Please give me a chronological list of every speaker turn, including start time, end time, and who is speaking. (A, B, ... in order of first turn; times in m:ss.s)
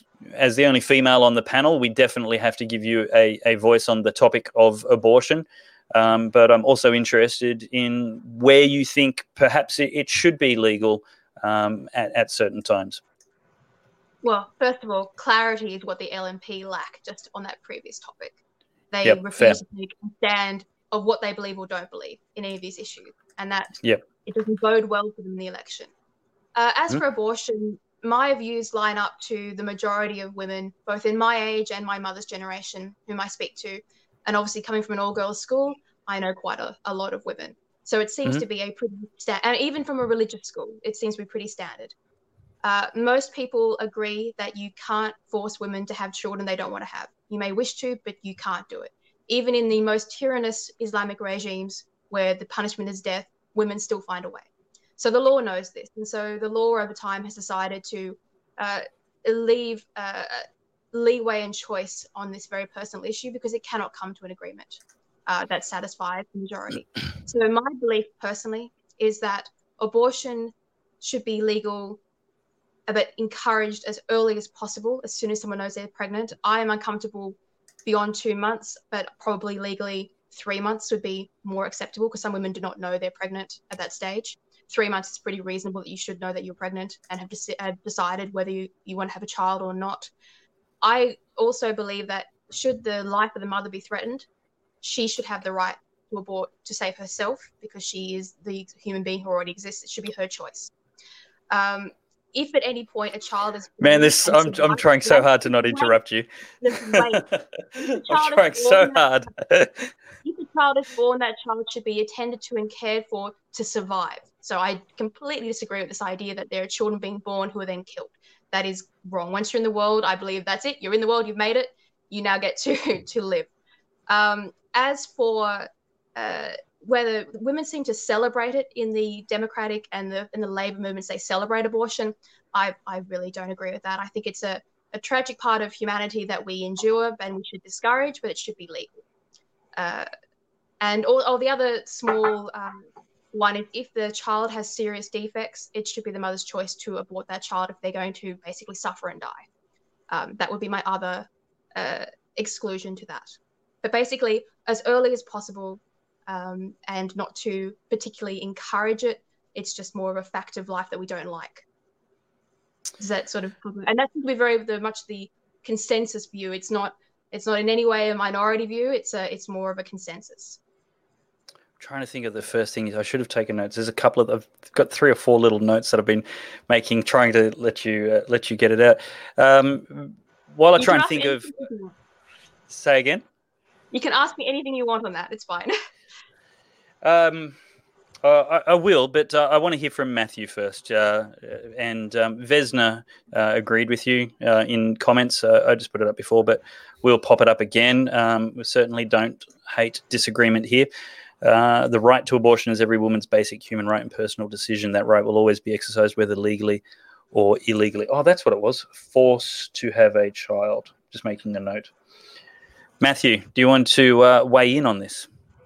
0:00.4-0:13.0 A
0:14.2-0:18.4 B
0:18.9-0:23.7 B
0:19.0-0:19.6 A
0:24.2-0:25.9 B
0:26.5-0:41.9 B
0:42.6-0:54.5 B
0:55.0-1:12.0 B
1:12.9-1:30.1 B
1:30.8-1:34.2 B
1:34.8-1:40.7 B
1:41.5-1:46.0 B
1:43.8-1:47.1 A
1:46.6-1:47.2 B
1:47.8-1:49.0 B
1:48.1-1:49.9 A
1:50.2-2:03.5 B
2:04.1-2:18.9 B
2:19.8-2:20.1 B
2:20.8-2:29.4 B
2:30.1-2:33.3 B
2:33.8-2:41.6 B
2:43.0-2:50.6 B
2:51.8-3:01.5 A
3:00.8-3:01.9 B
3:02.7-3:03.2 A
3:03.9-3:05.7 B
3:07.0-3:07.6 A
3:08.2-3:20.9 A
3:21.4-3:31.9 A
3:33.0-3:35.3 A